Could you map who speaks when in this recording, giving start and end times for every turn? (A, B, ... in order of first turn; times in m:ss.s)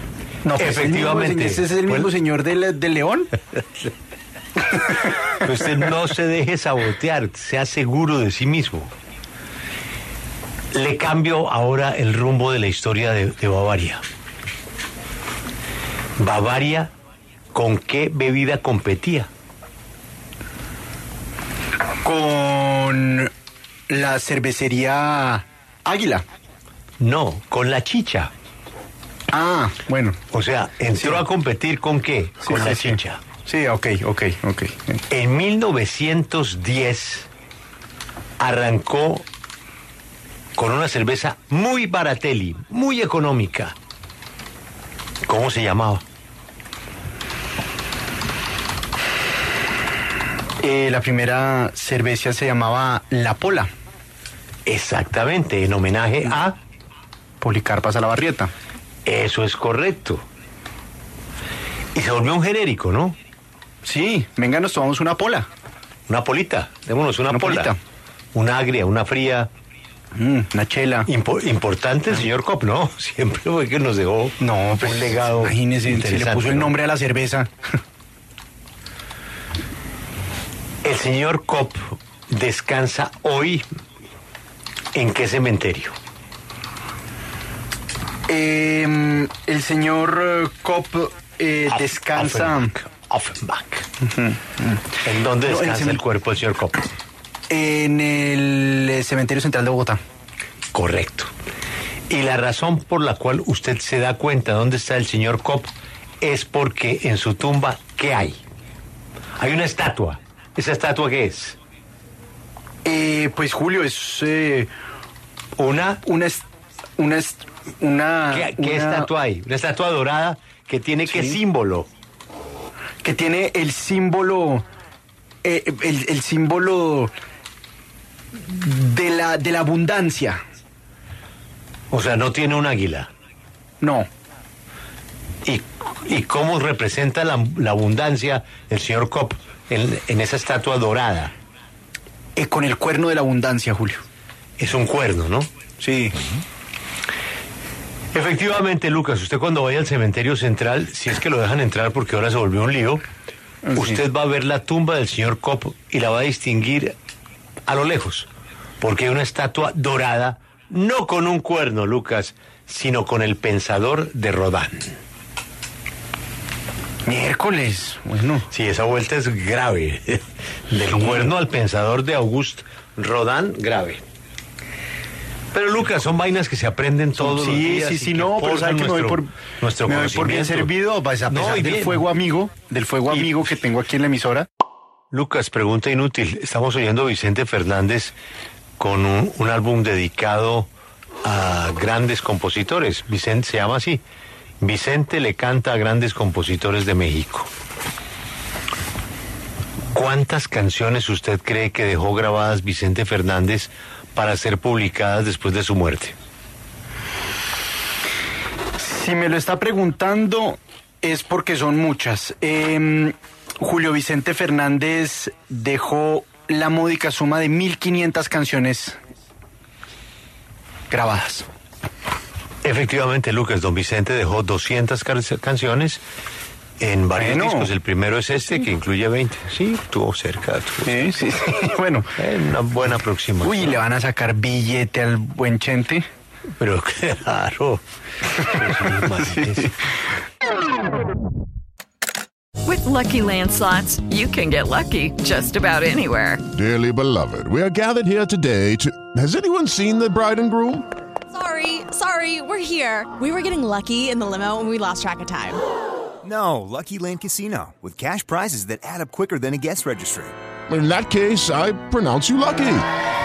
0:00.4-0:03.3 A
0:00.6-0:02.1 B
0:05.4-0:08.9 B
0:10.7-0:14.0 B
0:16.2-0:16.9 B
0:17.5-0:19.3 B
0:22.0-0:23.3 A
0:23.9-0:26.2 A
0:27.0-0:28.3 B
0:29.3-0:30.2 A
0:30.3-0:33.2 B
0:30.9-0:31.2 A
0:32.4-0:35.0 A
0:35.1-0:37.3 B
0:38.4-0:39.3 B
0:40.6-0:43.8 B
0:45.2-0:46.0 B
0:50.6-0:53.7 A
0:54.6-0:56.6 B
0:57.4-0:58.5 A
0:59.0-1:00.2 B
1:01.9-1:03.2 B
1:03.8-1:05.5 A
1:06.1-1:07.7 B
1:07.3-1:07.8 A
1:08.3-1:09.5 B
1:10.1-1:11.1 A
1:11.0-1:16.7 B
1:14.4-1:17.5 A
1:20.8-1:23.7 B
1:24.9-1:26.0 B
1:28.3-1:32.7 A
1:31.7-1:33.9 B
1:34.1-1:34.8 A
1:35.0-1:36.8 B
1:35.4-1:36.0 A
1:37.5-1:40.0 A
1:40.7-1:41.3 B
1:42.1-1:48.4 B
1:49.4-1:51.6 B
1:52.8-1:54.7 A
1:55.6-1:56.0 B
1:56.0-1:56.4 A
1:57.0-1:59.1 A
1:58.3-2:01.9 B
2:01.1-2:01.4 A
2:03.0-2:04.6 A
2:05.4-2:07.1 A
2:08.3-2:10.4 A
2:11.9-2:13.1 B
2:13.8-2:14.1 A
2:15.4-2:21.3 B
2:22.4-2:24.0 A
2:24.6-2:25.5 B
2:25.8-2:26.2 A
2:28.1-2:33.0 B
2:33.7-2:34.0 A
2:33.7-2:36.9 B
2:37.7-2:38.3 B
2:38.8-2:45.0 B
2:47.0-2:48.5 A
2:48.5-2:54.0 B
2:50.9-2:51.3 A
2:55.5-3:00.7 B
2:57.2-2:59.3 A
2:59.8-3:04.5 A
3:01.3-3:02.1 B
3:03.1-3:03.4 B
3:05.1-3:08.2 B
3:08.8-3:10.7 B
3:11.2-3:14.0 B
3:14.6-3:17.5 B
3:19.9-3:26.2 B
3:28.8-3:39.0 A
3:40.9-3:41.5 A
3:42.6-3:46.0 B
3:46.8-3:51.0 B
3:47.2-3:47.7 A
3:50.8-3:52.1 A
3:52.2-3:53.8 B
3:53.4-3:56.0 A
3:56.6-3:57.8 B
3:58.4-3:59.8 B
3:59.2-3:59.7 A
4:02.6-4:06.4 C
4:06.5-4:10.8 D
4:11.3-4:15.6 E
4:16.2-4:20.3 F
4:20.7-4:22.8 D